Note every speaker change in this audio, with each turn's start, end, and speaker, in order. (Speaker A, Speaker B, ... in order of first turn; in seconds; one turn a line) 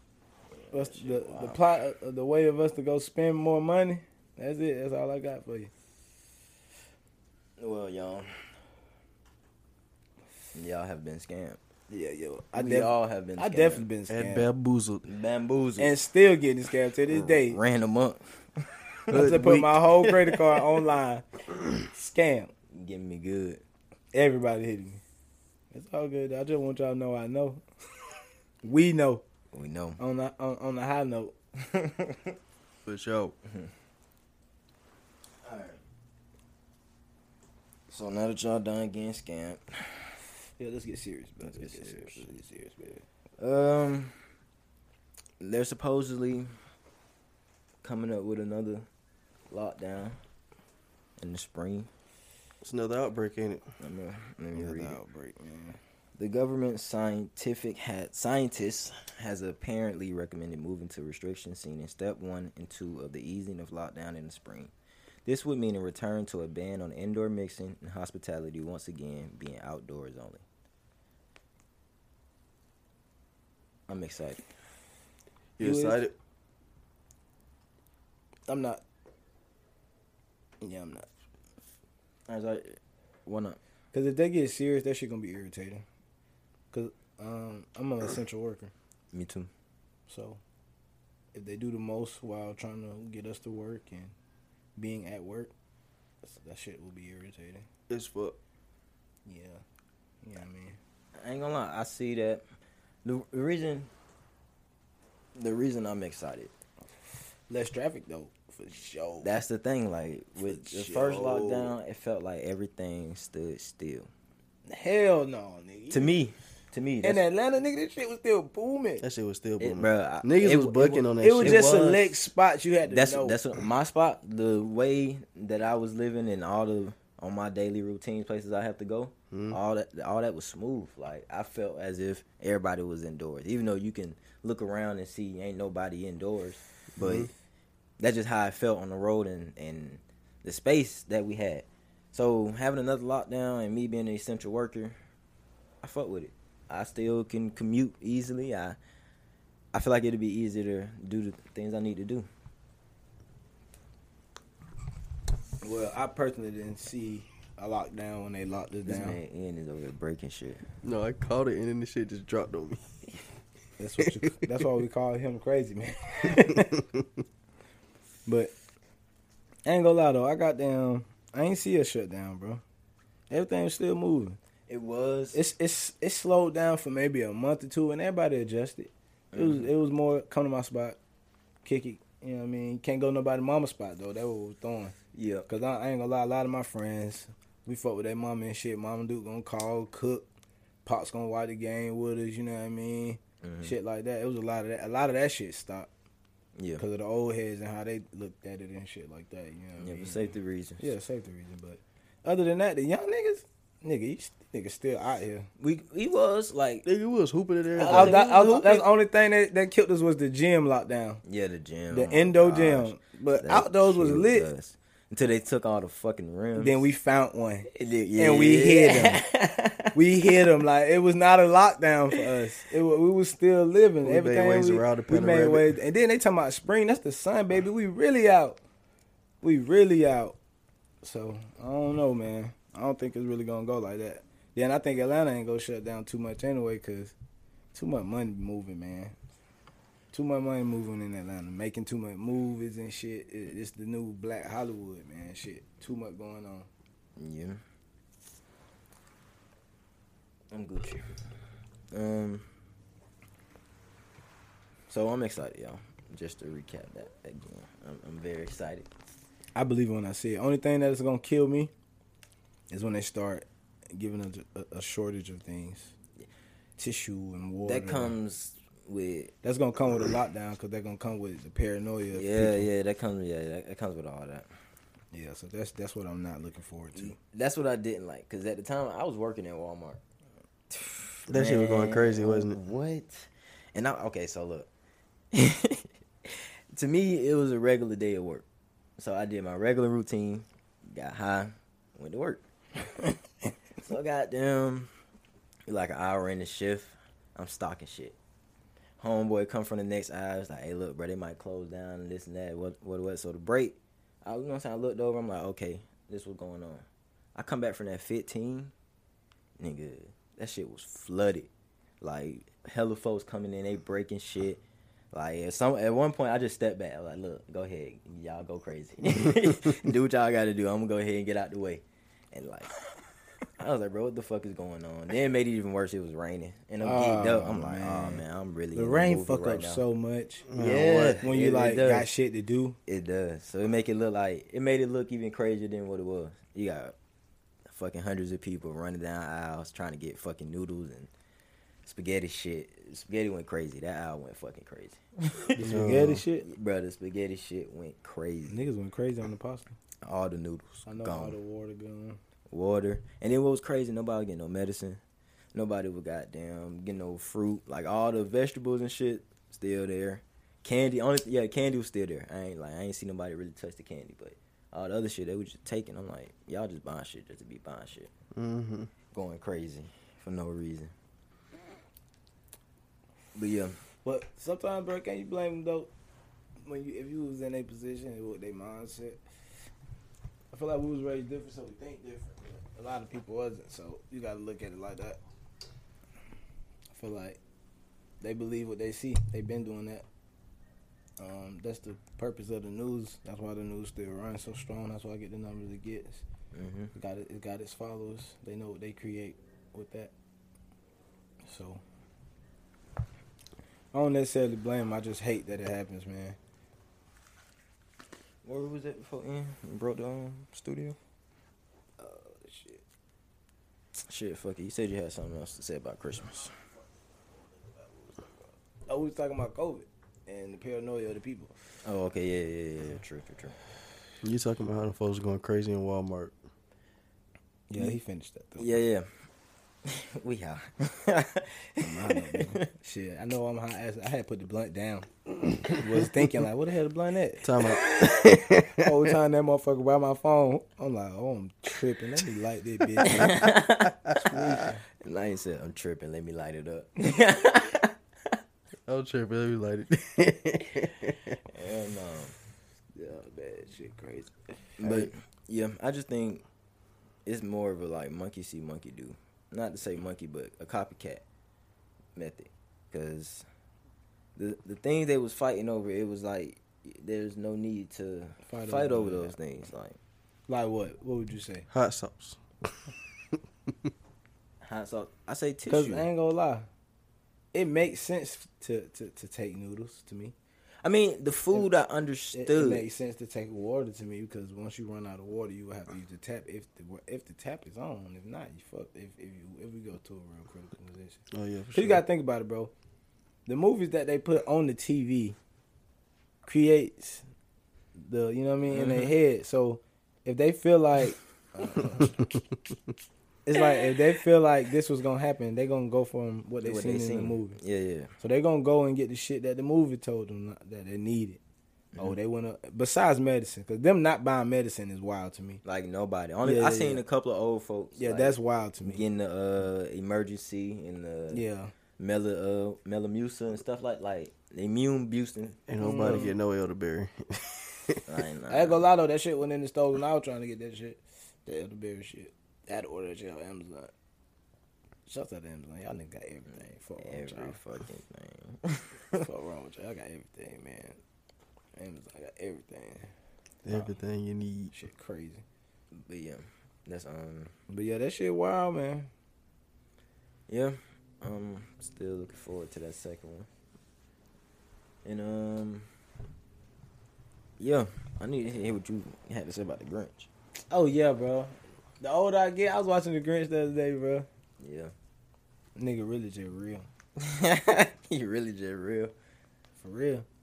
Speaker A: 0.5-1.6
Speaker B: 0.7-5.7
Speaker A: 7.6-8.4
Speaker A: 10.6-11.6
Speaker B: 11.9-14.5
Speaker A: 12.5-13.9
Speaker C: 14.1-15.1
Speaker A: 15.1-16.0
Speaker B: 15.8-17.6
Speaker A: 17.1-19.2
Speaker C: 19.1-20.2
Speaker B: 19.1-21.2
Speaker B: 21.8-22.5
Speaker A: 22.7-23.6
Speaker B: 24.1-25.0
Speaker B: 25.7-27.6
Speaker B: 28.6-29.2
Speaker A: 29.5-30.0
Speaker B: 30.0-31.4
Speaker A: 31.6-32.4
Speaker C: 32.9-33.4
Speaker A: 33.5-33.7
Speaker A: 35.4-35.8
Speaker A: 37.9-40.1
Speaker B: 40.6-43.0
Speaker A: 41.4-42.4
Speaker A: 43.4-44.2
Speaker A: 45.4-46.5
Speaker A: 47.8-48.9
Speaker A: 49.5-50.2
Speaker A: 51.2-51.9
Speaker C: 52.6-53.6
Speaker A: 53.8-55.0
Speaker B: 54.6-55.8
Speaker A: 56.2-64.7
Speaker A: 65.2-70.5
Speaker A: 73.9-74.5
Speaker C: 75.6-76.1
Speaker B: 75.6-76.0
Speaker B: 78.5-78.8
Speaker B: 80.6-81.1
Speaker A: 82.3-83.6
Speaker B: 83.9-85.8
Speaker B: 86.7-88.7
Speaker A: 89.1-89.5
Speaker B: 90.1-90.4
Speaker B: 91.3-94.1
Speaker B: 94.8-95.5
Speaker B: 96.2-97.7
Speaker C: 97.9-98.4
Speaker B: 99.3-99.6
Speaker B: 100.2-100.8
Speaker A: 101.2-102.5
Speaker A: 103.0-103.9
Speaker A: 105.3-106.5
Speaker B: 107.5-109.3
Speaker A: 109.2-114.1
Speaker B: 110.4-111.7
Speaker B: 114.7-116.2
Speaker A: 115.9-117.2
Speaker B: 117.0-119.0
Speaker C: 119.0-121.6
Speaker A: 119.6-122.2
Speaker B: 121.2-123.4
Speaker A: 122.9-137.3
Speaker C: 129.3-129.6
Speaker C: 137.0-137.3
Speaker A: 138.0-145.0
Speaker A: 145.8-148.8
Speaker A: 149.7-152.3
Speaker B: 155.6-159.2
Speaker A: 158.8-160.6
Speaker C: 160.8-162.8
Speaker B: 163.8-166.8
Speaker B: 168.3-168.5
Speaker B: 169.7-172.6
Speaker B: 173.3-174.4
Speaker A: 174.7-175.4
Speaker B: 175.3-181.0
Speaker A: 179.3-179.7
Speaker B: 181.7-185.0
Speaker A: 185.1-185.5
Speaker B: 185.5-190.3
Speaker B: 190.8-195.9
Speaker A: 193.4-193.8
Speaker A: 196.6-196.8
Speaker B: 196.8-205.5
Speaker A: 199.8-200.9
Speaker A: 205.6-206.9
Speaker C: 206.8-208.2
Speaker A: 207.8-208.9
Speaker B: 207.8-211.2
Speaker A: 211.2-216.8
Speaker B: 211.9-214.5
Speaker B: 216.6-219.2
Speaker A: 217.7-220.0
Speaker B: 219.9-228.6
Speaker C: 224.0-225.8
Speaker B: 229.4-230.4
Speaker B: 231.0-237.1
Speaker B: 237.7-239.2
Speaker B: 240.1-246.7
Speaker A: 247.2-247.6
Speaker A: 250.5-251.1
Speaker A: 251.9-252.5
Speaker A: 254.9-258.9
Speaker B: 259.6-261.7
Speaker B: 262.7-265.9
Speaker B: 266.8-268.2
Speaker A: 267.6-269.3
Speaker B: 269.4-272.7
Speaker A: 272.1-274.5
Speaker B: 275.1-277.2
Speaker A: 276.9-280.0
Speaker A: 280.7-284.7
Speaker C: 281.3-282.6
Speaker A: 285.3-288.4
Speaker A: 289.0-292.4
Speaker A: 293.8-294.9
Speaker A: 295.7-298.2
Speaker A: 299.0-308.7
Speaker A: 309.6-311.5
Speaker A: 312.0-322.7
Speaker A: 323.6-329.8
Speaker B: 326.8-328.2
Speaker B: 328.7-330.5
Speaker C: 330.5-331.2
Speaker A: 330.5-332.1
Speaker B: 331.2-332.8
Speaker A: 332.9-336.9
Speaker A: 337.7-341.1
Speaker A: 341.9-345.7
Speaker B: 345.6-346.5
Speaker C: 345.6-346.2
Speaker A: 346.4-348.6
Speaker B: 348.5-349.8
Speaker A: 350.0-351.4
Speaker B: 350.9-352.2
Speaker A: 352.5-355.0
Speaker A: 355.5-368.1
Speaker C: 368.4-368.9
Speaker A: 369.1-370.9
Speaker A: 373.4-373.8
Speaker B: 374.1-375.9
Speaker B: 376.6-379.2
Speaker B: 380.5-385.2
Speaker B: 386.9-387.4
Speaker B: 388.2-390.1
Speaker B: 391.2-396.2
Speaker A: 396.5-396.9
Speaker B: 396.9-400.1
Speaker B: 401.4-401.8
Speaker B: 403.9-406.4
Speaker A: 408.4-411.0
Speaker B: 412.0-412.8
Speaker A: 414.0-416.5
Speaker B: 418.9-421.5
Speaker A: 421.8-423.6
Speaker C: 424.2-426.4
Speaker B: 427.7-428.7
Speaker A: 428.6-429.1
Speaker A: 429.9-432.6
Speaker B: 431.8-443.5
Speaker C: 437.4-438.9
Speaker A: 443.0-443.9
Speaker B: 444.1-444.8
Speaker A: 445.0-448.4
Speaker C: 448.9-451.4
Speaker A: 451.5-452.4
Speaker B: 453.0-454.7
Speaker A: 454.8-456.4
Speaker A: 457.3-461.2
Speaker A: 462.2-463.5
Speaker A: 464.4-470.0
Speaker B: 468.4-469.4
Speaker B: 470.5-471.7
Speaker C: 471.7-472.4
Speaker A: 474.6-476.1
Speaker B: 475.7-476.7
Speaker B: 477.5-480.4
Speaker A: 480.8-482.9
Speaker B: 482.3-491.2
Speaker C: 491.3-492.0
Speaker B: 491.7-492.7
Speaker B: 493.5-495.4
Speaker B: 496.5-497.3
Speaker B: 497.9-502.4
Speaker B: 503.5-507.6
Speaker A: 506.6-508.1
Speaker B: 508.2-511.4
Speaker B: 512.0-515.6
Speaker A: 515.6-521.4
Speaker B: 516.4-517.0
Speaker B: 518.0-519.0
Speaker B: 521.3-521.7
Speaker A: 522.0-525.6
Speaker C: 525.7-528.0
Speaker B: 525.8-526.4
Speaker A: 528.1-528.9
Speaker B: 528.5-533.9
Speaker B: 535.1-537.6
Speaker A: 537.0-539.3
Speaker B: 539.2-541.0
Speaker B: 541.8-543.1
Speaker C: 543.6-544.7
Speaker B: 543.7-543.9
Speaker B: 544.7-545.4
Speaker A: 545.9-547.5
Speaker B: 547.7-549.1
Speaker A: 550.5-553.5
Speaker A: 555.0-555.9
Speaker A: 557.6-560.3
Speaker B: 560.7-564.3
Speaker A: 564.6-564.9
Speaker B: 565.8-566.9
Speaker A: 567.2-569.1
Speaker B: 569.8-570.3